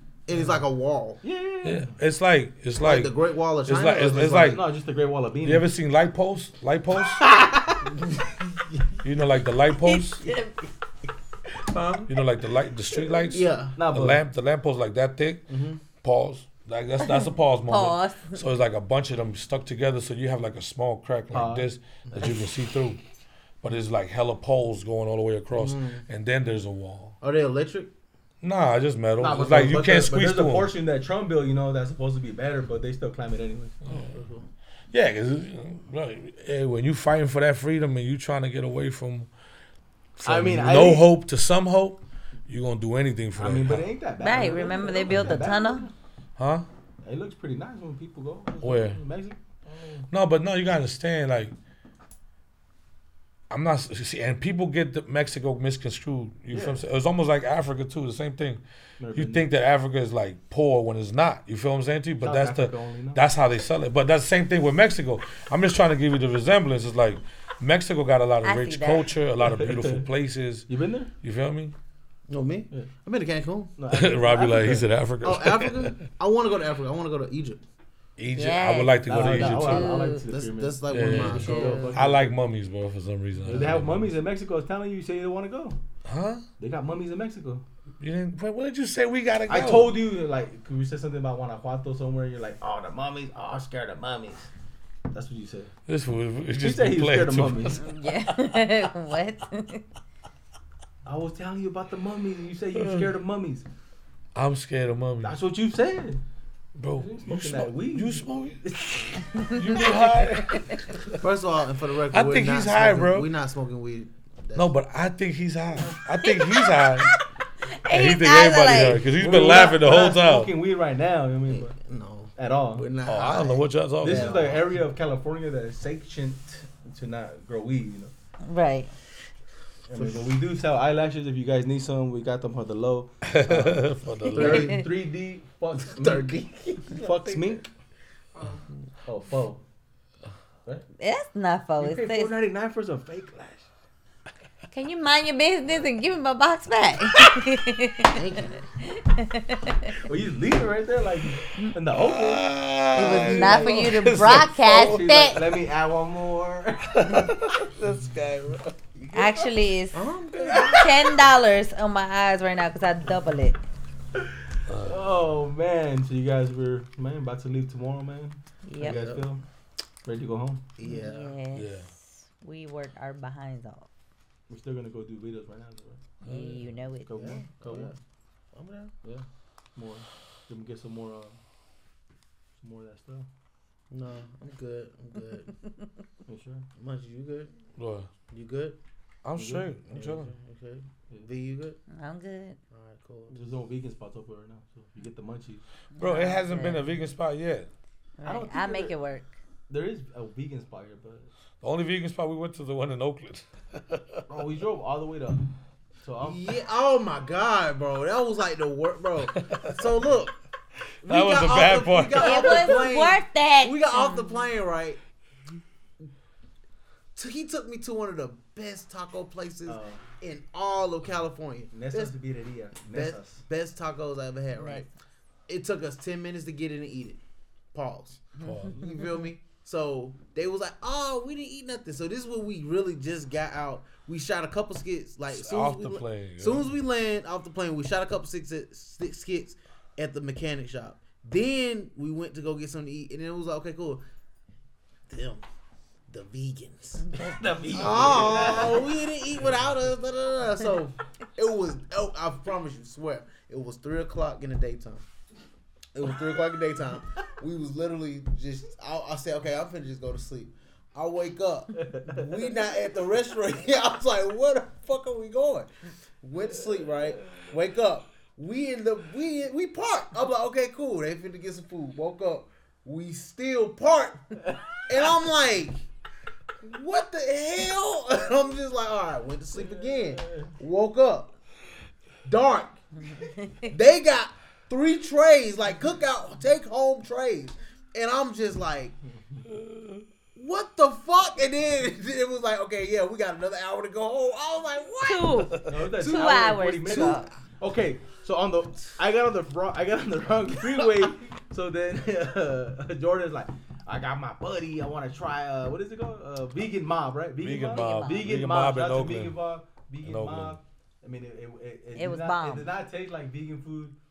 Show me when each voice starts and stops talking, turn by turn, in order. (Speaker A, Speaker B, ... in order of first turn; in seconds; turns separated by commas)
Speaker A: 0.3-1.2, Speaker B: 0.3-0.6, Speaker C: 1.2-1.9, Speaker B: 1.6-3.1, Speaker A: 2.8-4.6, Speaker B: 3.6-4.6, Speaker C: 4.3-5.7, Speaker B: 5.4-7.3, Speaker C: 7.0-8.0, Speaker B: 9.0-10.2, Speaker B: 12.1-15.5, Speaker A: 13.3-13.8, Speaker C: 13.8-14.2, Speaker C: 15.5-15.8, Speaker B: 16.0-23.0, Speaker D: 17.0-18.4, Speaker C: 21.3-21.7, Speaker A: 22.1-22.4, Speaker B: 23.6-27.2, Speaker A: 25.5-26.1, Speaker A: 27.2-27.9, Speaker B: 28.4-30.7, Speaker C: 29.2-33.8, Speaker B: 33.9-34.1, Speaker A: 33.9-34.5, Speaker B: 34.9-39.3, Speaker B: 40.2-43.9, Speaker C: 40.2-41.1, Speaker C: 43.4-45.9, Speaker D: 44.2-45.9, Speaker B: 46.4-46.7, Speaker C: 47.0-50.1, Speaker B: 48.6-49.0, Speaker B: 50.1-51.5, Speaker B: 53.5-58.6, Speaker C: 56.5-56.8, Speaker C: 59.0-59.4, Speaker B: 59.1-70.7, Speaker C: 62.2-63.2, Speaker D: 68.4-69.1, Speaker C: 69.4-70.1, Speaker C: 70.7-71.1, Speaker B: 71.2-71.7, Speaker A: 72.3-73.7, Speaker C: 73.8-74.8, Speaker B: 73.9-76.0, Speaker A: 75.2-77.6, Speaker B: 78.2-80.0, Speaker D: 78.3-80.2, Speaker C: 79.0-82.3, Speaker A: 80.2-82.0, Speaker B: 80.9-84.1, Speaker D: 81.1-81.9, Speaker C: 83.4-85.8, Speaker B: 86.0-86.4, Speaker C: 86.6-87.6, Speaker B: 88.0-90.0, Speaker C: 89.5-94.5, Speaker C: 95.1-95.7, Speaker B: 95.9-97.9, Speaker C: 96.6-97.9, Speaker D: 97.8-99.8, Speaker C: 101.0-103.7, Speaker B: 102.8-103.1, Speaker B: 104.3-105.3, Speaker C: 105.2-106.2, Speaker B: 106.8-111.1, Speaker C: 107.0-110.4, Speaker D: 109.3-110.0, Speaker D: 110.5-110.7, Speaker A: 111.2-114.7, Speaker B: 112.1-113.3, Speaker B: 114.5-117.1, Speaker D: 116.2-119.1, Speaker B: 117.9-120.5, Speaker C: 119.0-121.7, Speaker A: 121.5-124.7, Speaker C: 122.4-122.9, Speaker B: 123.0-124.6, Speaker C: 124.0-128.1, Speaker D: 128.4-128.9, Speaker C: 129.9-137.7, Speaker A: 129.9-130.2, Speaker B: 133.2-134.8, Speaker A: 134.3-134.8, Speaker D: 134.4-134.8, Speaker A: 135.8-137.6, Speaker C: 139.0-139.6, Speaker D: 141.0-142.3, Speaker C: 141.8-143.7, Speaker D: 144.7-149.9, Speaker A: 148.1-148.6, Speaker C: 149.9-157.7, Speaker B: 151.9-155.0, Speaker D: 152.9-155.4, Speaker B: 156.9-158.8, Speaker C: 158.9-159.5, Speaker D: 159.1-163.6, Speaker A: 159.9-160.9, Speaker C: 160.3-161.1, Speaker B: 164.7-165.1, Speaker C: 164.8-169.4, Speaker D: 168.6-169.0, Speaker A: 168.8-169.3, Speaker C: 170.0-170.6, Speaker A: 170.8-171.3, Speaker D: 170.8-173.9, Speaker B: 171.5-171.9, Speaker C: 174.5-176.0, Speaker B: 176.2-176.6, Speaker D: 176.2-177.4, Speaker C: 177.1-177.9, Speaker A: 177.1-178.0, Speaker A: 178.5-178.9, Speaker C: 179.0-181.4, Speaker C: 182.6-183.3, Speaker A: 183.9-185.5, Speaker C: 186.3-186.7, Speaker A: 186.8-187.5, Speaker B: 187.8-188.1, Speaker A: 188.3-188.8, Speaker B: 189.2-190.3, Speaker C: 189.3-189.7, Speaker A: 189.9-191.8, Speaker D: 191.9-192.6, Speaker A: 192.7-193.5, Speaker C: 193.3-195.6, Speaker D: 195.9-196.9, Speaker B: 196.0-197.7, Speaker D: 198.2-199.3, Speaker C: 198.2-198.9, Speaker C: 199.7-201.3, Speaker B: 201.6-204.2, Speaker C: 204.3-205.5, Speaker C: 206.0-206.5, Speaker A: 206.2-210.3, Speaker B: 209.2-209.8, Speaker B: 211.0-212.7, Speaker A: 211.0-215.0, Speaker D: 212.2-214.4, Speaker A: 217.2-222.1, Speaker C: 219.7-220.0, Speaker C: 221.7-223.4, Speaker A: 222.9-224.9, Speaker D: 224.6-224.9, Speaker A: 225.5-227.2, Speaker A: 227.7-244.0, Speaker B: 228.4-228.9, Speaker B: 235.3-236.7, Speaker A: 245.1-245.4, Speaker A: 246.1-247.1, Speaker D: 247.0-247.4, Speaker C: 247.1-248.9, Speaker A: 247.7-255.1, Speaker A: 255.9-265.7, Speaker C: 261.7-262.5, Speaker A: 266.2-275.8, Speaker C: 266.6-267.5, Speaker C: 274.4-274.8, Speaker A: 276.6-281.3, Speaker C: 279.5-280.5, Speaker A: 282.2-282.8, Speaker D: 283.0-283.7, Speaker A: 283.6-288.9, Speaker C: 289.1-289.5, Speaker B: 289.5-290.0, Speaker A: 290.4-297.3, Speaker D: 295.0-297.3, Speaker B: 295.5-295.8, Speaker C: 295.7-313.9, Speaker B: 307.4-309.4, Speaker D: 307.7-308.3, Speaker B: 310.0-310.6, Speaker D: 311.9-312.7